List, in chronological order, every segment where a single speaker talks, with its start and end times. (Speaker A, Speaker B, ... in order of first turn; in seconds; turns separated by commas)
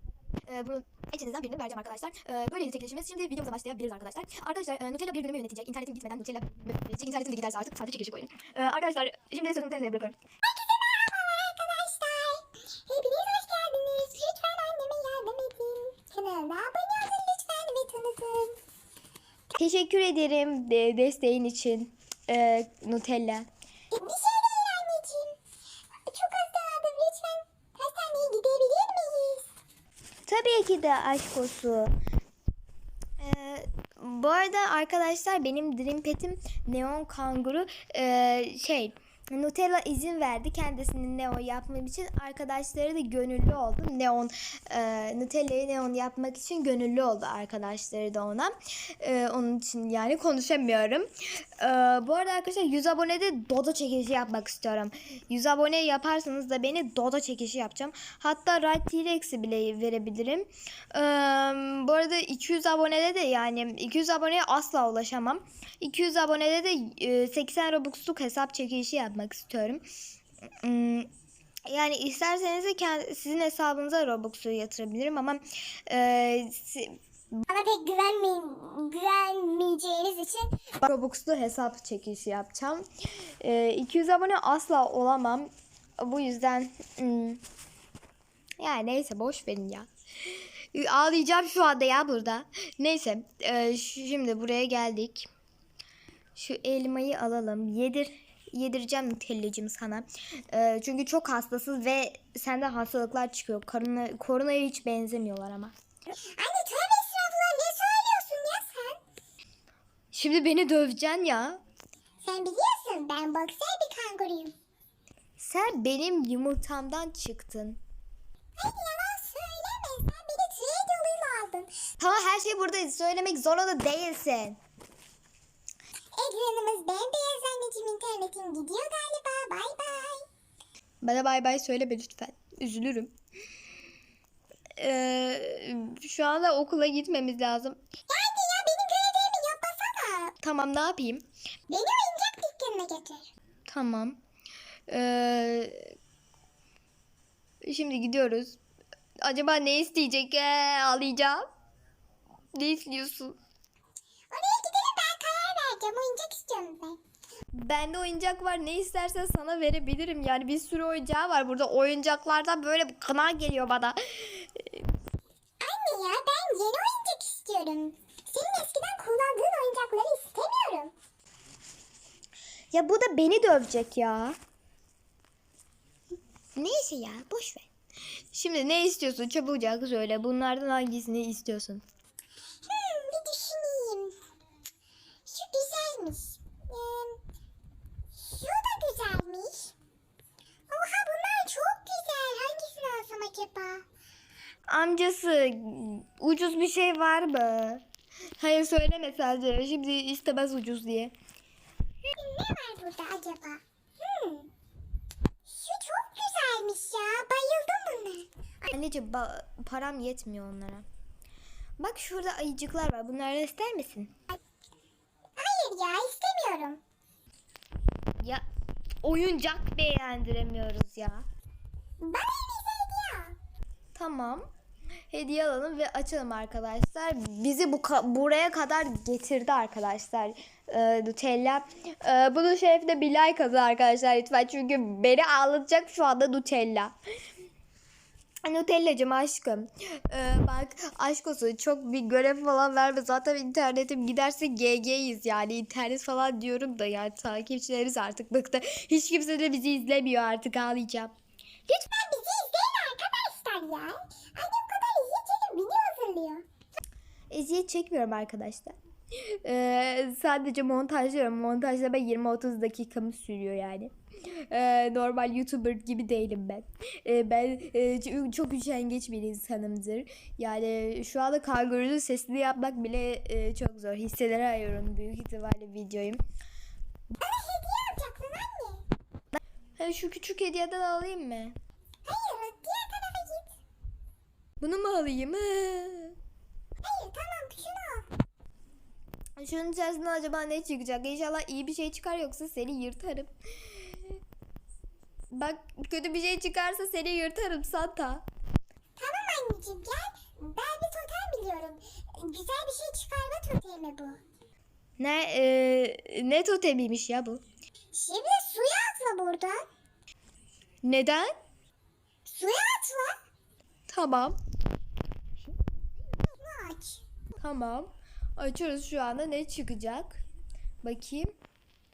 Speaker A: 0.5-10.1, Speaker B: 10.4-18.6, Speaker C: 19.6-23.5, Speaker B: 23.9-25.4, Speaker B: 26.1-29.5, Speaker C: 30.3-31.9, Speaker C: 33.2-69.8, Speaker C: 70.6-71.1, Speaker C: 71.7-77.4, Speaker B: 77.5-80.6, Speaker C: 80.8-87.4, Speaker C: 88.6-89.9, Speaker C: 90.7-95.3, Speaker C: 96.3-105.7, Speaker B: 106.4-109.0, Speaker C: 110.1-111.6, Speaker B: 112.2-114.5, Speaker C: 115.4-117.8, Speaker B: 118.6-121.7, Speaker C: 122.0-124.6, Speaker B: 126.1-130.2, Speaker C: 131.0-133.1, Speaker C: 134.8-137.8, Speaker B: 138.1-140.3, Speaker C: 140.4-141.2, Speaker B: 141.7-143.3, Speaker C: 143.7-144.2, Speaker C: 144.9-145.9, Speaker C: 147.6-148.6, Speaker C: 149.2-151.4, Speaker C: 152.5-153.3, Speaker B: 154.3-157.0, Speaker C: 157.5-164.8, Speaker B: 165.6-170.9, Speaker C: 172.7-174.4, Speaker C: 176.6-177.7, Speaker C: 178.3-181.8, Speaker B: 182.6-184.2, Speaker B: 185.3-187.2, Speaker B: 188.1-189.7, Speaker B: 190.7-193.8, Speaker C: 194.7-197.8, Speaker C: 198.4-201.1, Speaker B: 202.0-204.5, Speaker B: 205.4-208.7, Speaker C: 208.7-210.8, Speaker C: 211.8-214.1, Speaker B: 215.4-216.8, Speaker C: 219.0-221.2, Speaker B: 222.0-223.3, Speaker C: 223.9-224.4, Speaker C: 225.1-236.9, Speaker C: 238.4-251.1, Speaker B: 251.7-256.4, Speaker C: 257.3-276.2, Speaker B: 277.2-278.8, Speaker C: 279.3-281.6, Speaker B: 282.1-283.5, Speaker C: 284.6-286.1, Speaker B: 286.8-288.1, Speaker C: 289.4-294.1, Speaker C: 295.3-298.2, Speaker B: 299.0-304.2, Speaker C: 305.0-307.4, Speaker B: 307.9-309.6, Speaker C: 310.8-311.3, Speaker B: 312.3-313.2, Speaker C: 313.9-314.4, Speaker B: 316.2-317.0, Speaker C: 317.4-320.2, Speaker C: 320.8-321.3